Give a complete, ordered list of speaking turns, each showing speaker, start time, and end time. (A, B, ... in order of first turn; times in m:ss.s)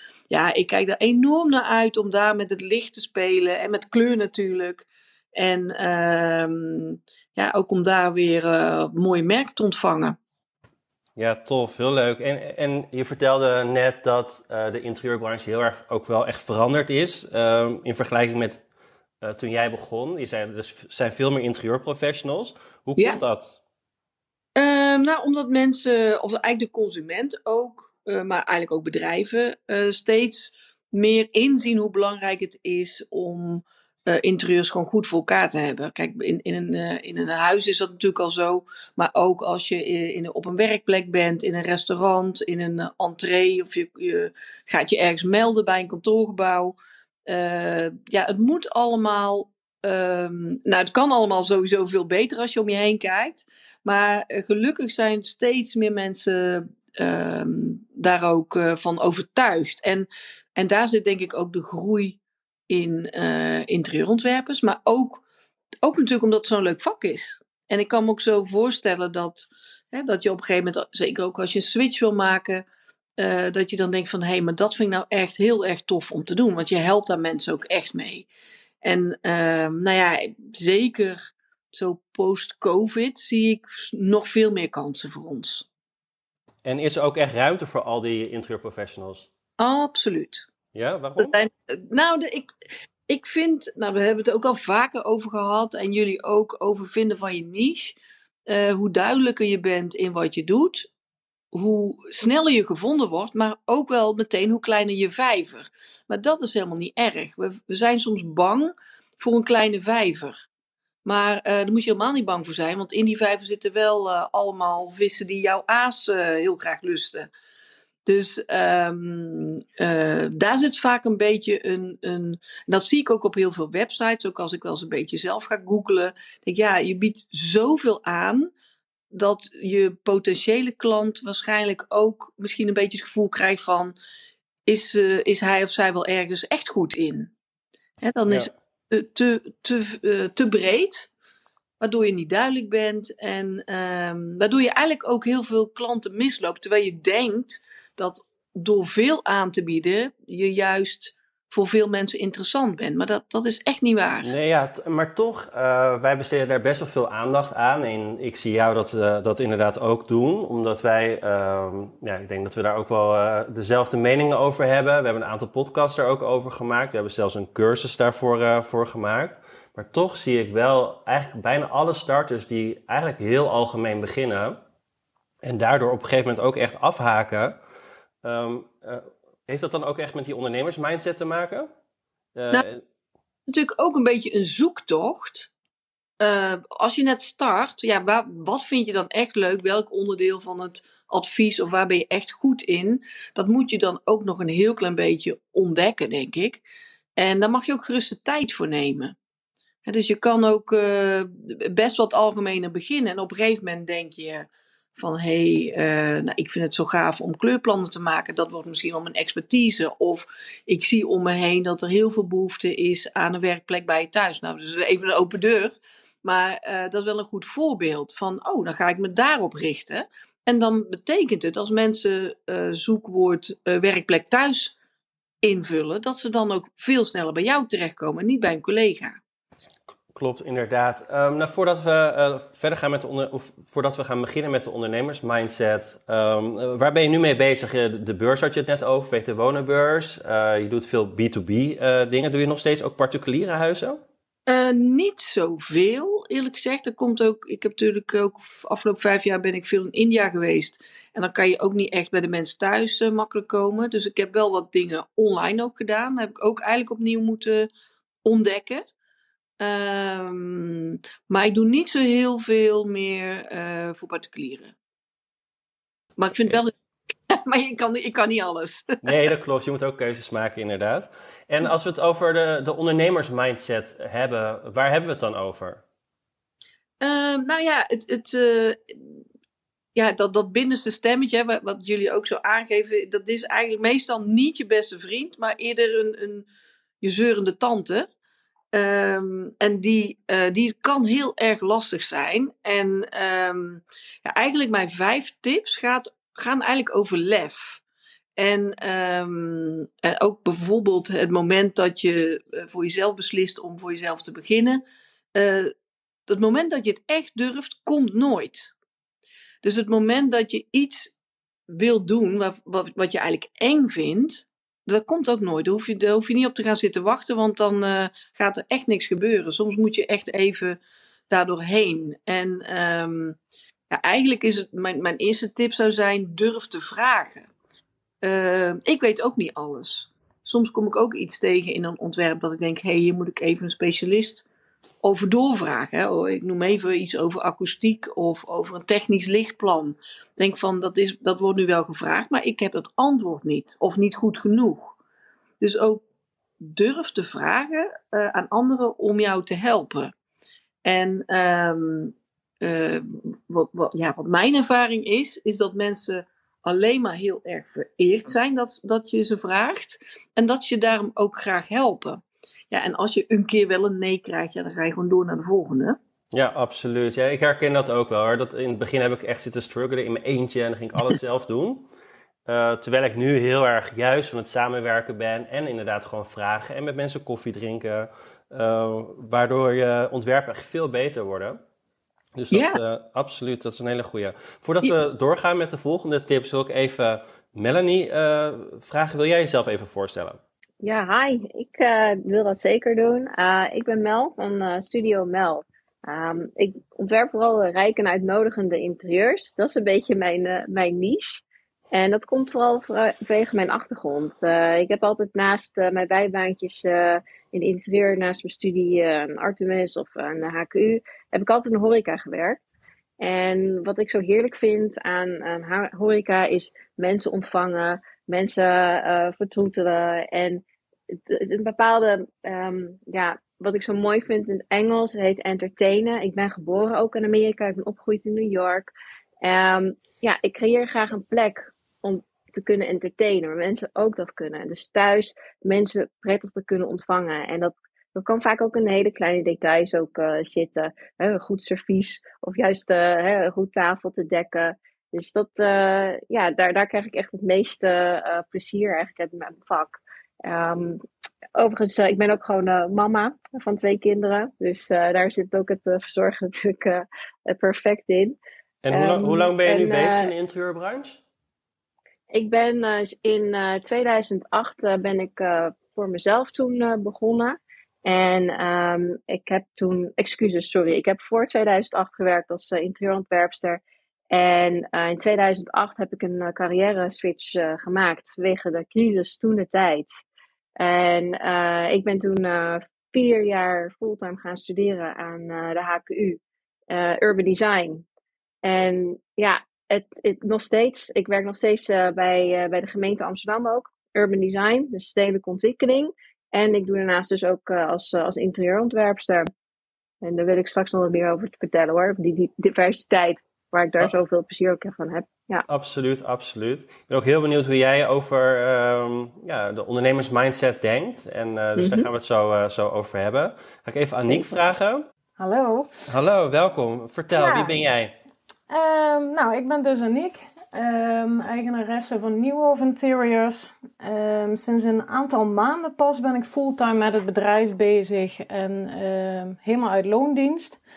0:00.3-0:10.2 A
0:11.2-0:18.6 B
0:19.2-0:23.6 B
0:24.6-0:46.8 A
0:47.3-1:02.2 A
1:02.7-1:05.2 A
1:05.8-1:12.6 A
1:13.2-1:18.3 A
1:18.8-1:25.7 A
1:26.6-1:29.3 B
1:29.6-1:30.5 A
1:30.7-1:31.4 B
1:31.2-1:32.5 A
1:33.1-1:38.0 A
1:38.5-1:40.9 A
1:41.5-1:50.4 A
1:51.0-1:57.3 A
1:58.0-2:08.5 A
2:09.1-2:14.0 A
2:14.7-2:17.3 A
2:18.0-2:21.1 A
2:21.8-2:34.3 A
2:34.2-2:54.6 B
2:55.4-2:57.6 B
2:58.2-3:01.7 B
3:02.4-3:02.8 B
3:03.5-3:05.5 A
3:06.2-3:16.6 A
3:17.2-3:19.2 A
3:19.8-3:44.7 A
3:45.4-3:49.2 A
3:50.1-4:04.0 B
4:04.5-4:17.7 A
4:18.2-4:18.8 A
4:19.6-4:24.8 A
4:26.2-4:26.8 A
4:27.3-4:29.1 A
4:29.0-4:35.8 B
4:37.0-4:39.2 A
4:40.0-4:46.5 A
4:47.0-4:48.1 A
4:48.7-4:57.8 A
4:58.4-5:04.8 A
5:05.4-5:05.7 A
5:06.3-5:08.7 A
5:09.6-5:11.1 A
5:11.7-5:20.8 A
5:21.3-5:23.4 A
5:23.9-5:27.5 A
5:28.2-5:34.4 A
5:35.0-5:45.0 A
5:45.6-5:46.0 A
5:46.6-5:50.1 A
5:50.8-6:06.0 A
6:06.3-6:11.9 B
6:12.5-6:21.6 B
6:22.4-6:30.4 B
6:22.5-6:22.8 A
6:30.8-6:52.6 C
6:53.2-7:00.6 C
7:01.3-7:08.9 C
7:09.4-7:31.0 C
7:31.6-7:38.4 C
7:38.8-7:41.2 B
7:38.9-7:40.3 C
7:42.3-8:00.2 C
8:00.8-8:06.4 C
8:06.9-8:08.0 C
8:08.6-8:19.5 C
8:20.2-8:25.7 C
8:25.7-8:35.0 B
8:31.8-8:32.1 C
8:35.4-8:35.9 D
8:36.1-8:38.1 B
8:37.3-8:37.8 D
8:38.7-8:50.8 D